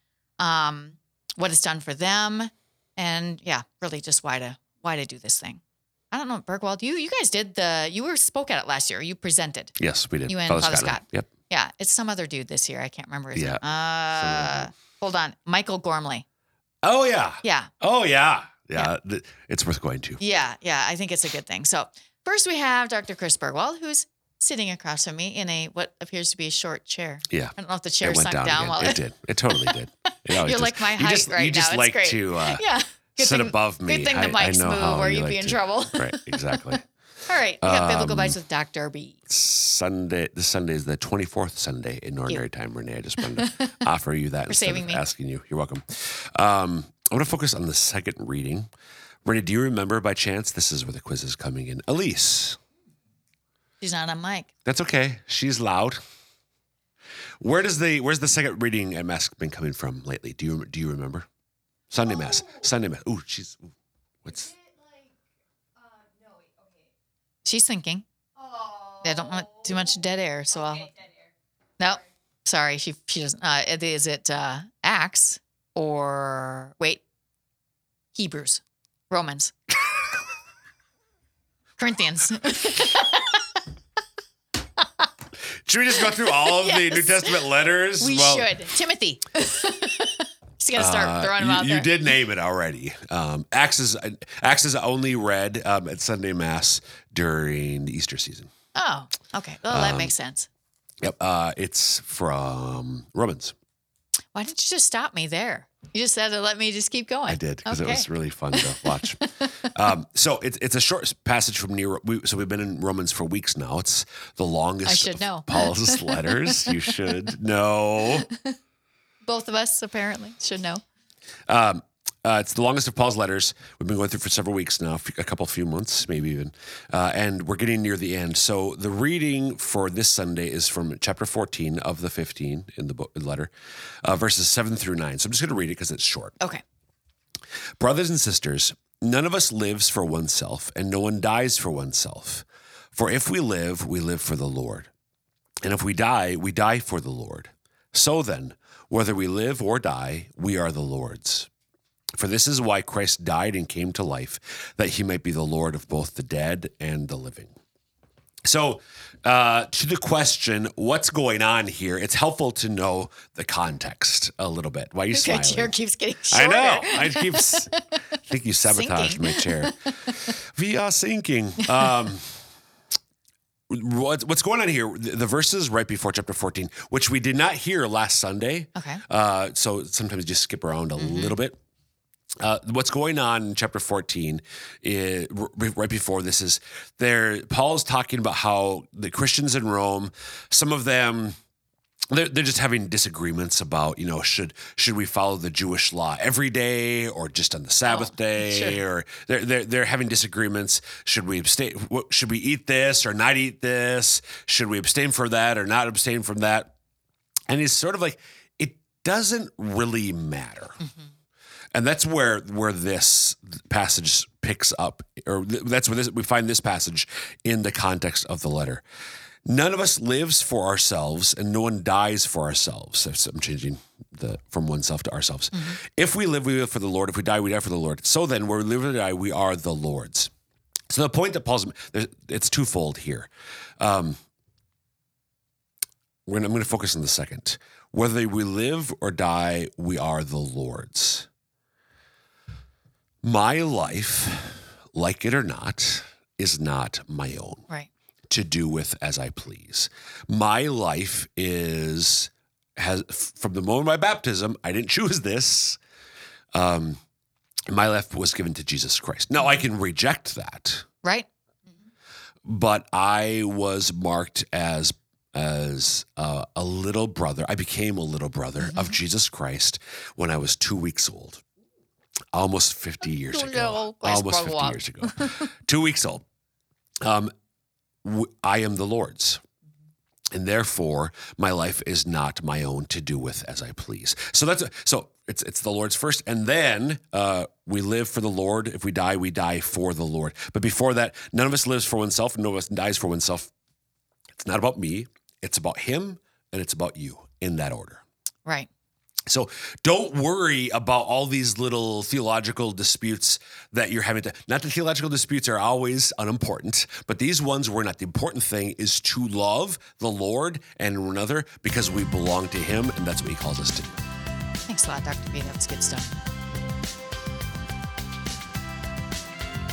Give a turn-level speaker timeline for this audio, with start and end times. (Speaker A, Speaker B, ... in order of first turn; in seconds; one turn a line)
Speaker A: 0.4-9.7
Speaker B: 9.8-11.3
Speaker A: 10.3-16.2
Speaker B: 13.3-14.7
Speaker B: 16.8-20.2
Speaker A: 17.4-17.7
Speaker A: 20.2-29.0
Speaker B: 27.3-36.9
Speaker A: 29.5-36.7
Speaker A: 37.3-39.2
Speaker B: 37.6-38.4
Speaker B: 39.3-48.7
Speaker A: 43.2-43.8
Speaker A: 44.5-45.0
Speaker B: 49.2-52.6
Speaker A: 53.8-54.5
Speaker B: 54.6-56.0
Speaker B: 57.4-61.2
Speaker B: 61.9-63.7
Speaker B: 64.2-64.5
Speaker A: 67.4-68.0
Speaker A: 68.9-71.0
Speaker A: 71.8-77.0
Speaker A: 78.1-79.5
Speaker A: 81.8-83.6
Speaker B: 85.6-88.5
Speaker A: 86.0-87.5
Speaker A: 88.0-92.1
Speaker B: 90.7-98.5
Speaker A: 98.7-100.5
Speaker B: 99.7-100.1
Speaker B: 101.0-103.5
Speaker A: 104.3-109.7
Speaker B: 107.3-118.3
Speaker A: 114.8-117.0
Speaker A: 118.3-118.5
Speaker A: 119.2-120.8
Speaker B: 121.5-133.5
Speaker B: 134.0-136.3
Speaker B: 137.8-144.9
Speaker B: 145.6-151.5
Speaker B: 152.1-157.5
Speaker B: 158.4-165.7
Speaker A: 165.1-167.8
Speaker B: 166.3-172.4
Speaker A: 168.7-170.3
Speaker B: 173.7-181.6
Speaker A: 178.7-179.0
Speaker A: 181.0-181.3
Speaker B: 182.4-191.3
Speaker B: 192.1-206.7
Speaker A: 197.9-198.8
Speaker B: 207.5-210.8
Speaker B: 211.7-218.8
Speaker B: 219.4-230.3
Speaker A: 225.5-225.8
Speaker B: 230.9-234.2
Speaker B: 236.2-241.3
Speaker B: 243.2-247.6
Speaker B: 248.3-255.8
Speaker B: 256.5-257.0
Speaker B: 257.7-260.9
Speaker B: 262.4-271.4
Speaker A: 268.6-268.9
Speaker B: 272.3-276.2
Speaker A: 273.3-275.5
Speaker B: 277.0-277.3
Speaker B: 278.0-279.4
Speaker B: 280.3-293.5
Speaker B: 294.4-298.0
Speaker B: 299.3-314.0
Speaker A: 314.7-316.2